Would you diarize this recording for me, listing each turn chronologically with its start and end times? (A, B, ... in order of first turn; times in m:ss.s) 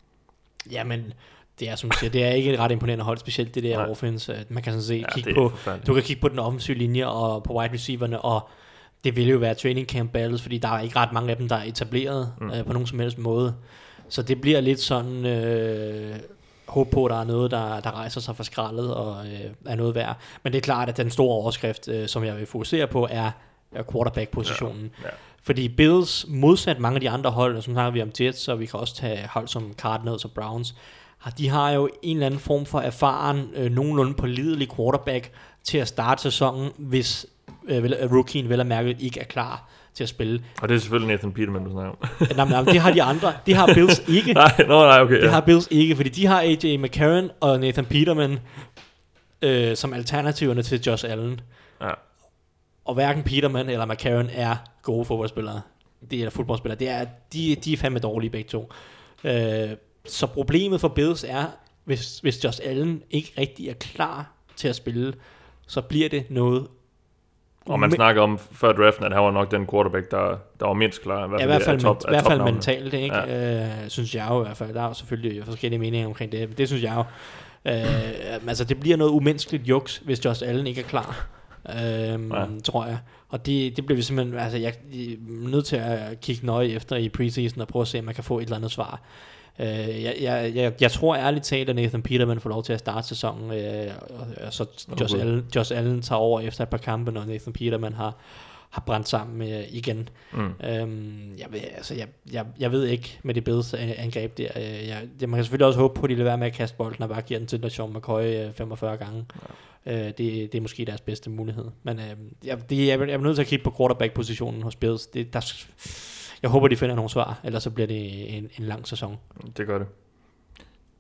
0:00.7-0:40.5 A
0:05.0-0:05.9 B
0:24.4-0:25.2 B
0:40.6-0:42.7 B
0:42.3-0:51.8 A
0:43.5-0:43.7 B
0:44.3-0:45.4 B
0:52.8-1:08.0 A
1:07.7-1:13.3 B
1:11.4-1:59.2 A
1:34.9-1:35.3 B
1:40.3-1:40.6 B
1:59.4-2:00.6 B